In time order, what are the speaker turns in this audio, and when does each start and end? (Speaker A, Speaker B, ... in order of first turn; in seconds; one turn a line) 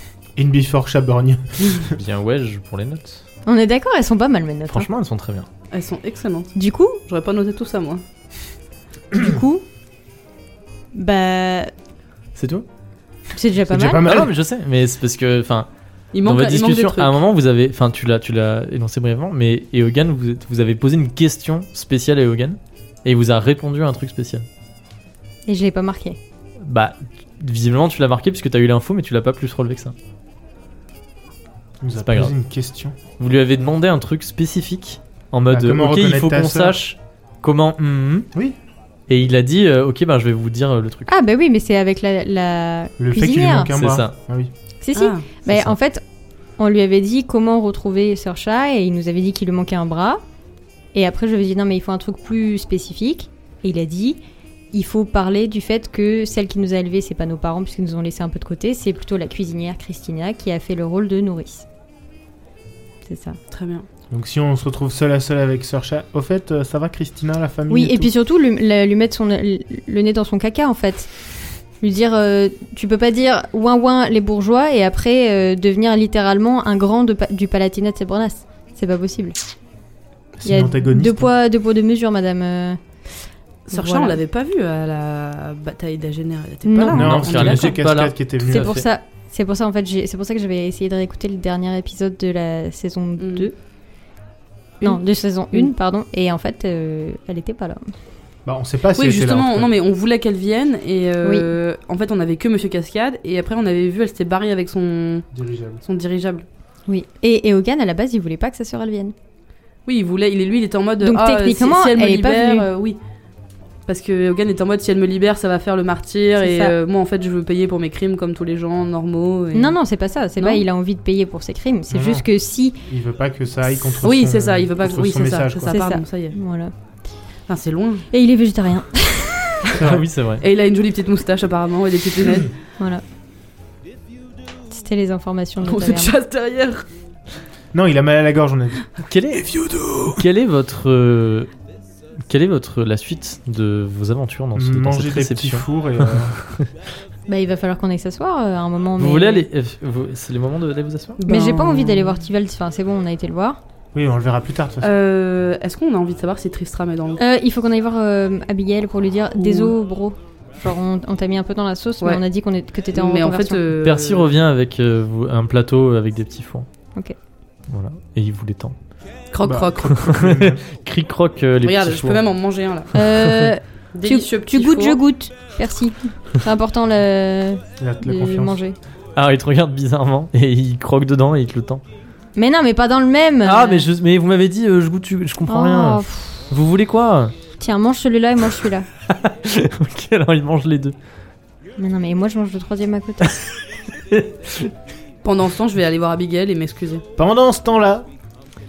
Speaker A: 0.4-1.9
Speaker B: 1.9-3.2
Speaker C: 3.5-4.9
Speaker B: 4.7-5.5
Speaker D: 5.7-6.5
Speaker C: 6.6-7.0
Speaker D: 7.1-8.0
Speaker C: 9.1-9.7
Speaker C: 10.9-11.7
Speaker B: 12.4-12.7
Speaker C: 13.3-14.2
Speaker A: 13.7-14.3
Speaker B: 14.0-15.7
Speaker D: 16.1-17.2
Speaker B: 16.2-24.5
Speaker C: 25.5-26.2
Speaker B: 26.7-29.9
Speaker A: 31.8-33.0
Speaker B: 32.0-32.3
Speaker B: 33.2-38.3
Speaker A: 35.5-36.8
Speaker B: 39.1-41.1
Speaker C: 41.1-43.7
Speaker A: 43.0-44.5
Speaker B: 43.7-44.1
Speaker C: 44.8-46.0
Speaker D: 45.0-45.2
Speaker B: 45.5-45.7
Speaker C: 46.6-50.2
Speaker C: 50.9-54.2
Speaker C: 54.7-61.7
Speaker C: 63.1-63.4
Speaker D: 63.5-63.9
Speaker A: 64.1-68.1
Speaker C: 67.7-71.1
Speaker C: 71.8-79.4
Speaker A: 80.4-81.3
Speaker C: 80.5-82.8
Speaker D: 83.7-87.8
Speaker C: 83.7-84.2
Speaker C: 86.7-87.2
Speaker A: 86.9-88.8
Speaker B: 87.0-88.9
Speaker C: 88.5-93.5
Speaker D: 93.2-93.5
Speaker C: 94.8-97.8
Speaker A: 98.5-99.7
Speaker D: 99.0-105.3
Speaker C: 101.2-101.5
Speaker A: 105.3-105.8
Speaker D: 105.8-106.5
Speaker C: 106.9-109.1
Speaker D: 109.9-113.0
Speaker C: 111.0-112.7
Speaker D: 113.9-119.8
Speaker C: 116.4-116.7
Speaker C: 119.5-122.8
Speaker D: 120.4-120.6
Speaker A: 121.9-122.3
Speaker A: 122.9-125.8
Speaker D: 124.0-126.4
Speaker C: 125.7-126.7
Speaker D: 127.5-128.1
Speaker C: 128.1-129.8
Speaker A: 129.7-130.1
Speaker B: 129.8-130.4
Speaker D: 130.4-132.5
Speaker C: 134.7-136.1
Speaker D: 135.6-136.8
Speaker A: 137.7-138.8
Speaker B: 139.0-141.5
Speaker B: 142.3-146.7
Speaker A: 144.6-146.3
Speaker C: 147.3-149.5
Speaker B: 149.0-151.2
Speaker D: 151.2-152.2
Speaker C: 151.3-153.6
Speaker A: 153.9-154.9
Speaker D: 154.8-157.2
Speaker C: 157.2-163.6
Speaker D: 159.4-159.7
Speaker D: 162.9-164.3
Speaker B: 163.8-166.7
Speaker B: 167.7-168.8
Speaker D: 169.3-170.0
Speaker A: 169.4-170.6
Speaker B: 169.9-172.2
Speaker D: 171.6-173.0
Speaker C: 172.9-178.8
Speaker D: 173.9-175.0
Speaker A: 177.8-178.6
Speaker B: 179.2-181.8
Speaker C: 182.3-183.9
Speaker B: 183.4-187.3
Speaker C: 185.5-186.5
Speaker C: 187.6-188.9
Speaker B: 189.1-190.9
Speaker C: 191.8-193.4
Speaker B: 194.1-194.7
Speaker D: 195.2-197.0
Speaker A: 197.2-198.1